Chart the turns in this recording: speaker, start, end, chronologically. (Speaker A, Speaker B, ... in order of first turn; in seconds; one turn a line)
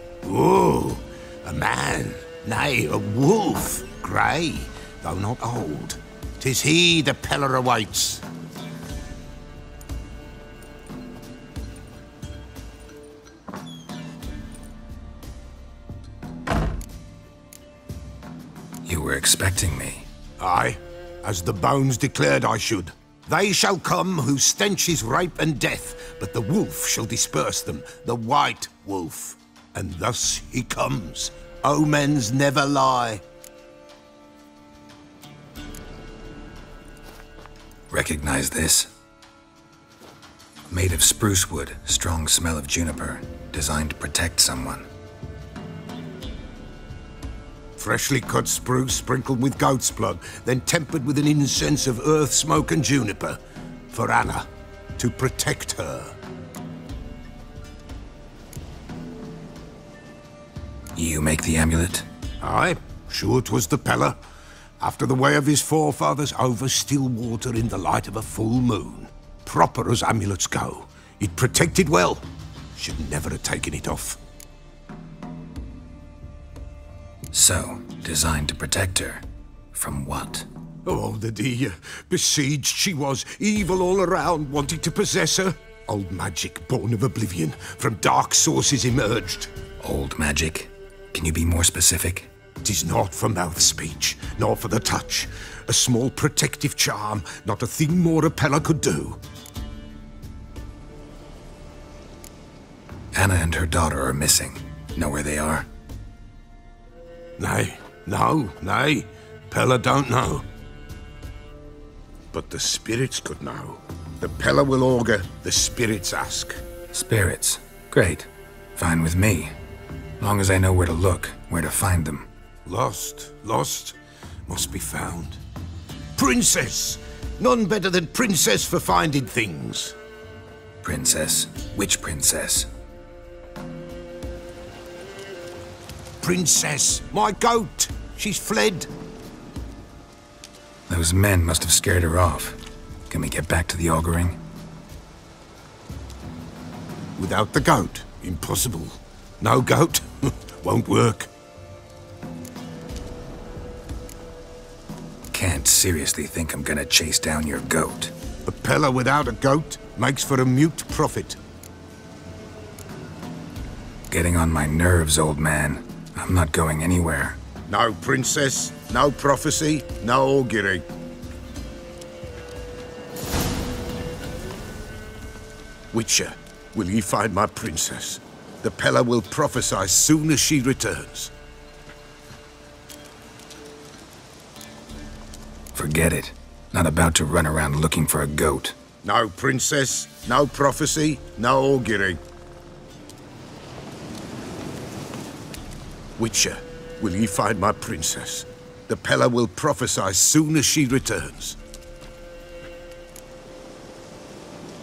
Speaker A: 0.2-8.2
Speaker B: 18.9-20.1
Speaker A: 20.4-33.2
Speaker B: 37.9-38.9
Speaker B: 40.7-44.9
Speaker A: 47.8-53.4
Speaker A: 53.9-56.1
Speaker B: 61.0-62.0
Speaker A: 62.4-64.2
Speaker A: 64.8-74.2
Speaker B: 77.3-80.5
Speaker A: 80.8-89.5
Speaker B: 89.8-92.3
Speaker A: 92.6-99.2
Speaker B: 103.1-105.7
Speaker A: 107.4-110.4
Speaker A: 112.3-116.6
Speaker B: 116.9-119.5
Speaker B: 120.2-122.3
Speaker A: 122.7-125.4
Speaker A: 126.2-129.9
Speaker B: 130.8-132.7
Speaker A: 136.2-138.9
Speaker B: 140.9-142.6
Speaker B: 143.1-144.4
Speaker A: 147.2-151.3
Speaker B: 155.3-158.1
Speaker A: 158.4-161.4
Speaker B: 164.1-167.4
Speaker A: 167.7-170.8
Speaker A: 175.9-181.3
Speaker B: 185.8-188.8
Speaker A: 189.0-192.2
Speaker A: 196.2-201.6